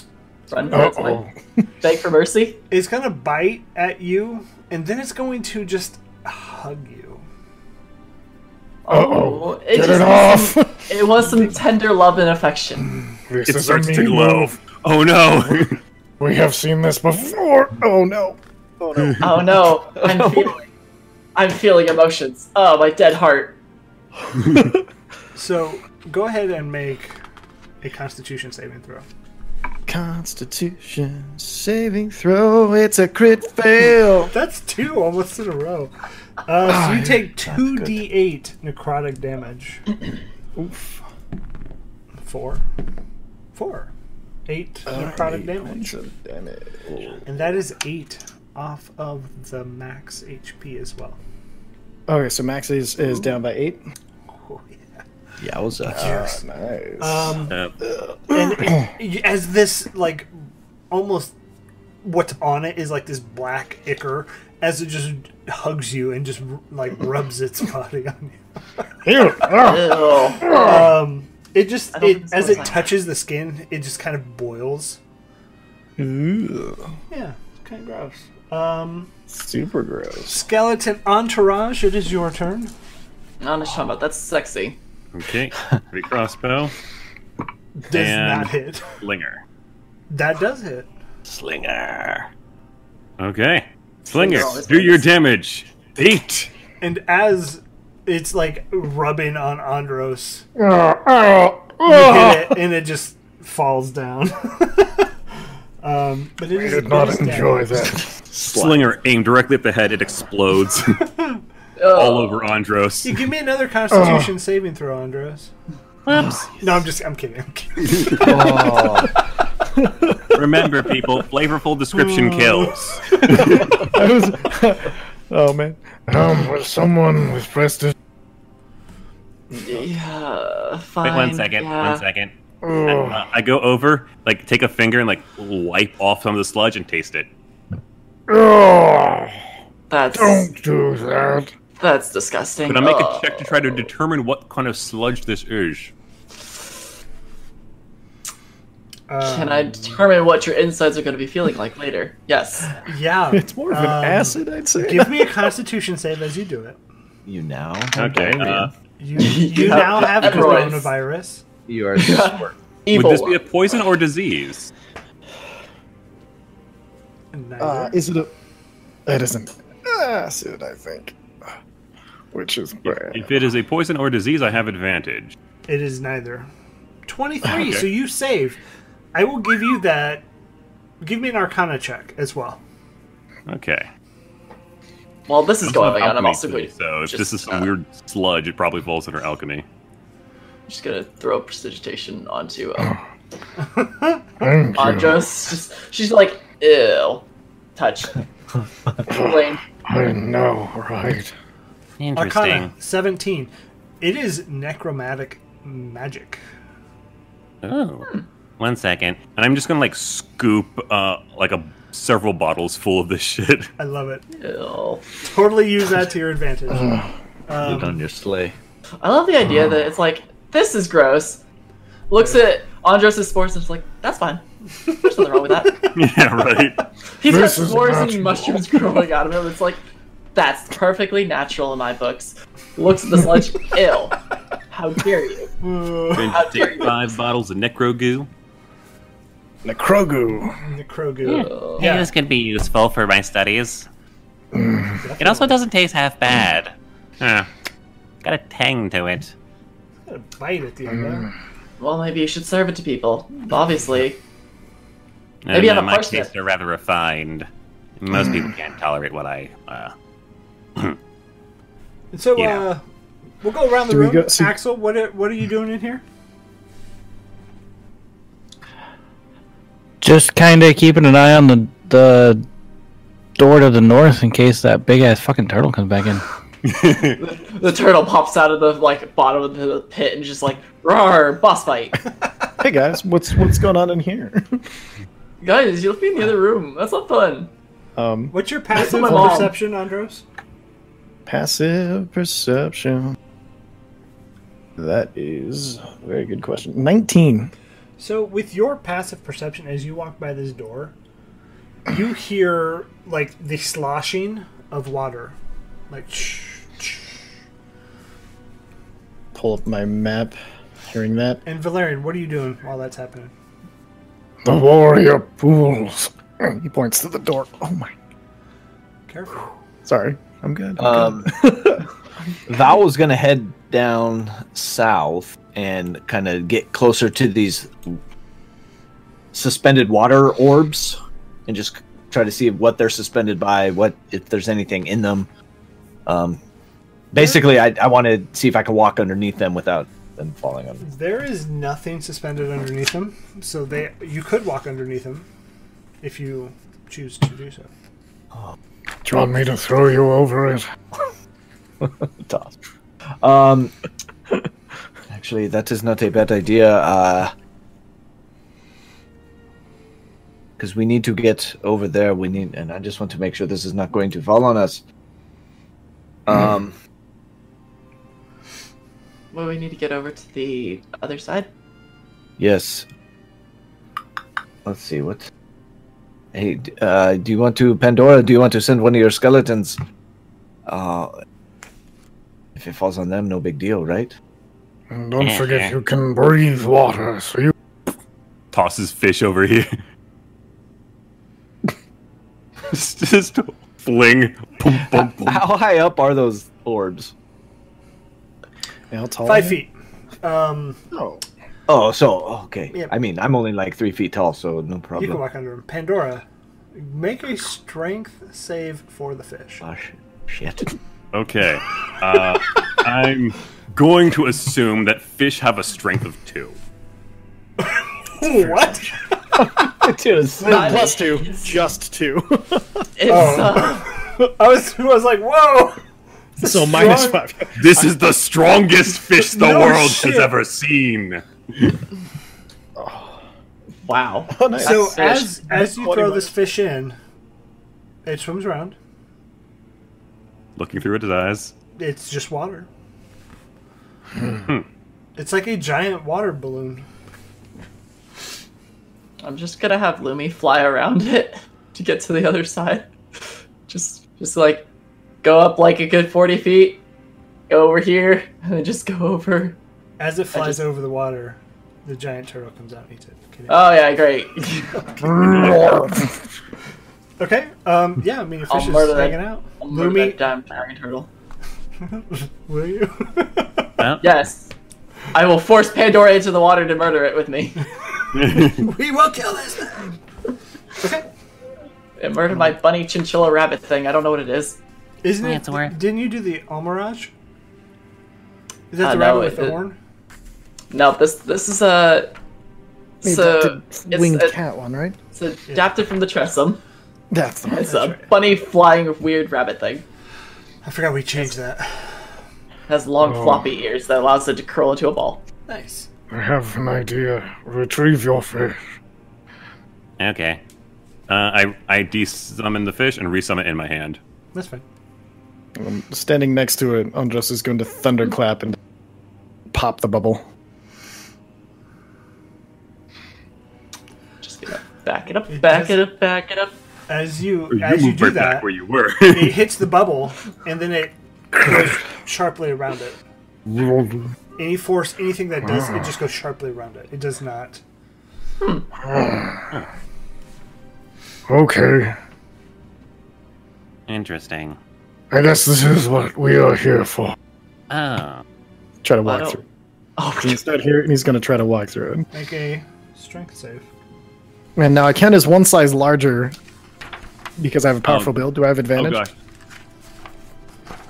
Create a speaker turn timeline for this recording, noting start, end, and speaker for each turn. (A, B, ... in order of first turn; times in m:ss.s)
0:00.5-0:01.2 A
0:00.7-0:01.3 B
0:01.8-0:02.6 A
0:02.7-0:07.2 C
0:08.9-0:12.9 A
0:08.9-0:10.5 B
0:10.1-0:10.9 D
0:13.2-0:14.6 B
0:13.5-0:15.8 E
0:16.2-0:17.8 B
0:17.7-0:19.5 D
0:19.2-0:20.7 A
0:20.0-0:20.5 F
0:21.4-0:23.6 A
0:25.4-0:27.2 C
0:27.8-0:29.1 C
0:29.9-0:34.3 D
0:34.3-0:35.9 C
0:36.4-0:39.8 C
0:37.5-0:38.0 F
0:40.6-0:41.0 D
0:42.2-0:42.6 C
0:43.6-0:43.9 C
0:44.5-0:46.0 C
0:44.9-0:47.2 D
0:47.3-0:51.2 C
0:52.1-0:53.8 D
0:54.3-0:55.0 C
0:55.4-0:56.1 F
0:55.9-0:58.7 D
0:56.0-0:56.4 C
0:57.0-0:57.6 C
0:58.3-1:00.3 C
1:00.9-1:01.3 C
1:02.0-1:08.9 C
1:09.0-1:11.0 B
1:09.4-1:10.6 A
1:10.4-1:15.0 C
1:11.9-1:13.0 A
1:16.0-1:16.8 D
1:17.1-1:19.1 C
1:19.3-1:20.4 D
1:20.3-1:22.7 C
1:23.4-1:24.8 A
1:25.1-1:26.7 E
1:27.9-1:28.8 C
1:27.9-1:29.4 E
1:30.1-1:30.9 C
1:31.3-1:32.3 F
1:33.2-1:36.5 E
1:34.1-1:35.0 A
1:36.8-1:40.4 C
1:40.6-1:42.5 B
1:41.8-1:45.1 C
1:45.8-1:47.7 C
1:46.5-1:48.1 B
1:48.3-1:48.9 F
1:48.5-1:51.0 E
1:51.8-1:52.5 A
1:51.9-1:53.2 E
1:53.0-1:55.5 C
1:53.9-1:54.3 B
1:56.1-1:56.4 G
1:56.6-1:58.8 C
1:57.9-1:58.2 E
1:58.2-1:59.1 F
1:59.8-2:00.2 D
2:00.3-2:03.7 E
2:02.0-2:03.4 C
2:03.8-2:06.0 D
2:06.1-2:07.9 B
2:09.6-2:12.0 A
2:11.0-2:12.3 G
2:12.6-2:13.2 B
2:13.1-2:17.3 E
2:18.3-2:19.4 B
2:19.9-2:20.5 A
2:20.1-2:21.5 B
2:21.8-2:23.9 A
2:22.7-2:25.9 E
2:29.1-2:30.0 C
2:29.2-2:32.8 A
2:32.8-2:36.8 C
2:33.3-2:35.5 D
2:37.3-2:38.7 F
2:38.0-2:38.7 E
2:39.0-2:41.4 C
2:39.2-2:40.9 A
2:41.7-2:42.6 F
2:42.0-2:43.4 A
2:42.9-2:44.7 E
2:47.3-2:48.0 C
2:47.6-2:48.3 D
2:49.1-2:51.2 D
2:52.3-2:53.4 D
2:52.8-2:55.4 E
2:55.7-2:56.5 C
2:57.1-2:58.6 C
2:57.5-2:57.8 E
2:59.1-3:00.2 C
3:01.0-3:02.6 C
3:03.5-3:03.9 E
3:05.3-3:07.7 A
3:05.6-3:09.6 E
3:10.7-3:13.0 A
3:13.6-3:14.2 C
3:14.4-3:15.3 B
3:14.8-3:17.2 A
3:17.8-3:18.1 A
3:19.1-3:19.6 A
3:19.1-3:21.3 B
3:22.0-3:22.7 G
3:22.2-3:26.4 C
3:27.6-3:28.1 G
3:28.6-3:29.4 G
3:29.2-3:33.7 E
3:33.8-3:34.2 C
3:34.3-3:35.0 A
3:35.3-3:38.0 C
3:37.6-3:38.6 F
3:39.0-3:41.4 A
3:42.1-3:45.9 A
3:45.9-3:46.8 E
3:47.2-3:49.8 A
3:47.2-3:49.0 B
3:50.4-3:54.2 A
3:54.7-3:55.5 A
3:55.6-3:56.3 C
3:56.1-3:58.3 E
3:56.2-3:57.0 A
3:59.7-4:00.3 B
3:59.7-4:00.5 D
4:00.6-4:02.1 C
4:01.2-4:03.9 G
4:01.3-4:02.0 A
4:04.6-4:05.0 B
4:05.0-4:05.6 C
4:05.2-4:07.5 G
4:08.2-4:09.3 G
4:10.1-4:11.3 C
4:11.8-4:14.2 A
4:15.5-4:17.5 G
4:15.5-4:16.3 A
4:18.0-4:19.9 G
4:22.1-4:22.8 C
4:22.4-4:22.7 G
4:23.4-4:26.0 C
4:23.9-4:24.6 D
4:30.0-4:32.4 H
4:33.4-4:36.2 H
4:36.6-4:37.2 E
4:37.2-4:42.0 A
4:42.6-4:44.6 D
4:45.4-4:47.5 A
4:48.0-4:49.4 D
4:48.3-4:50.2 C
4:48.7-4:49.6 A
4:51.3-4:53.2 D
4:54.8-4:57.5 D
4:58.0-5:01.0 C
5:01.9-5:05.4 C
5:05.9-5:07.1 C
5:09.3-5:10.4 D
5:10.9-5:11.4 D
5:11.4-5:13.3 C
5:14.4-5:16.1 B
5:16.4-5:17.9 D
5:19.1-5:19.5 C
5:19.8-5:21.8 D
5:20.8-5:21.3 F
5:22.5-5:28.0 F
5:29.3-5:35.3 F
5:36.1-5:36.4 F
5:37.1-5:40.8 F
5:40.8-5:45.3 C
5:46.0-5:47.7 C
5:49.0-5:50.6 B
5:51.8-5:52.6 F
5:53.2-5:53.7 F
5:55.1-5:57.3 F
6:00.6-6:04.8 F
6:06.3-6:06.8 F
6:09.3-6:11.5 A
6:12.4-6:12.9 F
6:14.6-6:15.3 F
6:16.3-6:19.8 F
6:20.7-6:21.1 F
6:22.6-6:24.1 F
6:24.9-6:27.5 B
6:25.2-6:25.7 G
6:28.5-6:29.7 E
6:32.7-6:35.4 E
6:34.8-6:37.1 F
6:38.9-6:39.6 D
6:39.2-6:40.8 C
6:40.9-6:41.2 D
6:41.7-6:45.2 F
6:45.0-6:49.6 C
6:49.6-6:50.7 F
6:51.1-6:56.6 E
6:57.6-6:59.7 C
6:59.4-7:02.7 D
6:59.8-7:00.8 F
7:00.4-7:01.5 A
7:03.0-7:03.8 A
7:03.1-7:05.8 C
7:06.4-7:07.2 C
7:06.4-7:07.9 D
7:07.6-7:11.8 E
7:09.1-7:10.4 C
7:12.8-7:13.2 D
7:13.9-7:15.9 A
7:14.3-7:15.0 D
7:14.6-7:17.0 C
7:15.8-7:16.2 D
7:18.1-7:18.8 C
7:20.6-7:21.5 E
7:21.8-7:22.7 C
7:25.2-7:26.9 C
7:29.2-7:34.7 A
7:35.2-7:36.8 A
7:37.5-7:39.6 A
7:40.0-7:43.6 C
7:40.3-7:40.6 A
7:43.5-7:44.9 A
7:45.0-7:46.1 B
7:47.2-7:50.2 C
7:48.5-7:51.1 A
7:51.9-7:53.7 C
7:53.8-7:54.1 G
7:54.0-7:54.5 A
7:55.1-7:57.7 A
7:58.1-7:58.6 E
7:58.3-7:59.9 C
8:00.8-8:01.0 C
8:02.0-8:04.6 A
8:05.0-8:07.1 C
8:05.2-8:05.8 G
8:08.7-8:09.8 C
8:08.8-8:09.6 A
8:10.7-8:12.1 A
8:13.0-8:14.4 A
8:13.0-8:15.0 D
8:15.1-8:16.6 A
8:17.1-8:17.8 D
8:17.5-8:19.8 A
8:17.6-8:18.1 C
8:20.6-8:22.0 C
8:22.7-8:25.2 A
8:23.0-8:23.5 B
8:25.5-8:25.9 C
8:26.1-8:28.6 B
8:30.0-8:30.4 G
8:31.1-8:34.0 E
8:34.3-8:34.6 C
8:35.6-8:38.6 D
8:39.5-8:40.2 D
8:44.2-8:46.5 A
8:45.3-8:45.8 C
8:46.9-8:48.5 C
8:47.5-8:49.4 E
8:49.1-8:53.0 C
8:53.5-8:54.1 B
8:54.4-8:57.6 C
8:55.5-8:55.8 B
8:58.8-8:59.5 B
9:01.3-9:02.0 B
9:03.9-9:04.6 G
9:05.1-9:07.2 B
9:07.7-9:08.2 G
9:08.8-9:09.4 D
9:09.0-9:09.4 A
9:10.0-9:10.4 A
9:10.2-9:12.1 D
9:12.1-9:13.7 C
9:14.6-9:16.4 D
9:17.4-9:19.0 D
9:17.8-9:18.2 E
9:18.7-9:19.1 E